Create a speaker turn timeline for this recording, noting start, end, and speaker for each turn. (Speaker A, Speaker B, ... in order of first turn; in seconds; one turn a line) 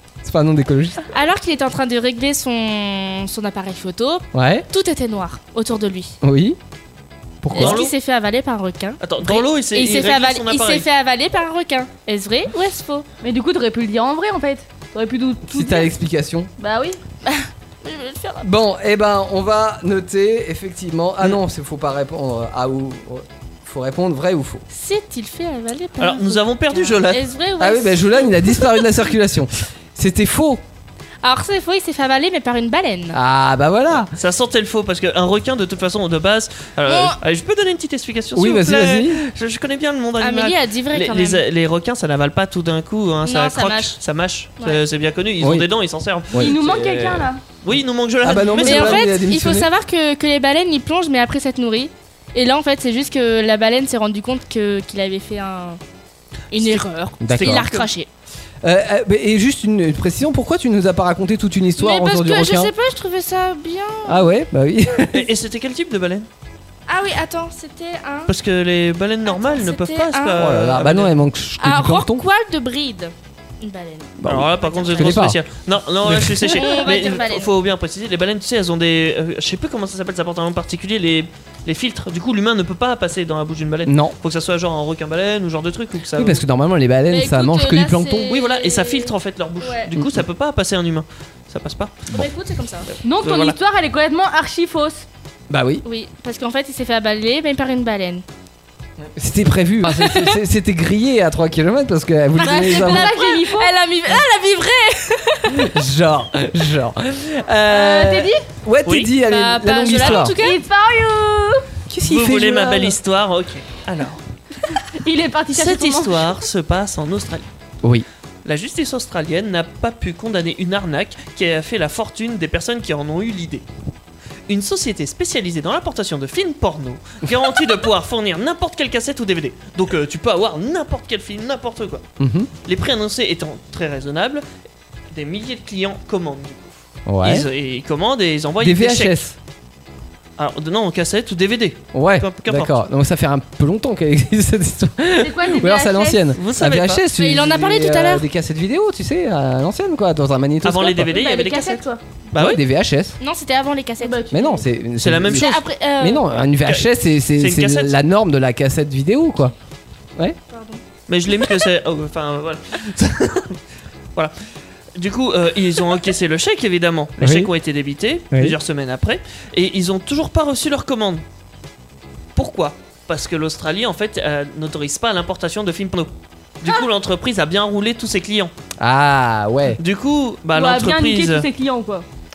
Speaker A: 0.2-1.0
Speaker B: 1.1-6.1
Speaker A: 4.3-4.7
Speaker A: 6.2-6.6
Speaker A: 7.4-7.8
Speaker B: 7.5-13.1
Speaker C: 7.5-7.9
Speaker C: 9.0-10.8
Speaker D: 13.2-15.9
Speaker A: 15.5-16.5
Speaker D: 16.6-17.0
Speaker B: 17.2-18.5
Speaker A: 18.4-24.6
Speaker B: 24.7-28.8
Speaker C: 26.0-27.2
Speaker A: 27.6-30.6
Speaker B: 31.2-33.2
Speaker A: 33.1-34.1
Speaker C: 34.1-49.1
Speaker B: 36.9-37.2
Speaker A: 38.3-39.2
Speaker B: 40.2-41.4
Speaker B: 43.2-44.0
Speaker A: 45.4-45.7
Speaker A: 46.3-46.6
Speaker D: 46.4-47.4
Speaker A: 48.2-49.7
Speaker B: 48.6-55.8
Speaker B: 56.5-58.1
Speaker C: 56.6-57.9
Speaker A: 57.2-57.6
Speaker A: 58.6-62.7
Speaker B: 61.8-64.3
Speaker A: 64.0-65.3
Speaker C: 65.1-66.3
Speaker B: 66.9-68.3
Speaker C: 68.3-71.1
Speaker B: 69.2-70.4
Speaker A: 70.3-72.2
Speaker B: 71.6-75.3
Speaker A: 74.2-75.4
Speaker C: 74.2-86.4
Speaker A: 76.0-76.7
Speaker B: 76.5-77.5
Speaker A: 83.8-84.2
Speaker A: 86.1-88.3
Speaker B: 87.1-89.9
Speaker C: 88.3-92.0
Speaker A: 89.9-90.2
Speaker B: 92.1-92.9
Speaker D: 93.0-95.0
Speaker C: 93.2-93.5
Speaker A: 95.5-95.8
Speaker B: 95.8-98.2
Speaker A: 99.0-103.1
Speaker B: 99.9-100.4
Speaker B: 102.3-105.7
Speaker D: 102.4-103.7
Speaker A: 105.5-110.3
Speaker D: 107.7-108.4
Speaker C: 108.8-109.1
Speaker B: 109.2-110.6
Speaker D: 110.3-111.7
Speaker A: 111.9-113.0
Speaker C: 112.0-114.2
Speaker D: 114.9-116.3
Speaker C: 115.5-117.5
Speaker C: 118.4-123.6
Speaker C: 124.5-132.0
Speaker A: 132.2-132.5
Speaker C: 132.6-134.4
Speaker C: 135.1-139.2
Speaker A: 137.1-137.5
Speaker A: 138.6-139.3
Speaker C: 140.4-142.8
Speaker A: 141.9-151.1
Speaker D: 145.2-146.3
Speaker C: 146.3-147.1
Speaker B: 147.1-148.2
Speaker C: 150.6-152.6
Speaker D: 151.1-152.0
Speaker A: 152.3-153.2
Speaker B: 153.2-154.2
Speaker D: 154.0-154.6
Speaker A: 154.3-159.5
Speaker C: 155.0-155.6
Speaker B: 155.3-156.2
Speaker C: 156.6-157.9
Speaker B: 160.5-160.8
Speaker C: 161.1-163.6
Speaker C: 164.9-171.2
Speaker A: 167.2-167.5
Speaker C: 172.3-178.5
Speaker A: 178.8-179.8
Speaker C: 179.8-181.5
Speaker D: 180.5-182.0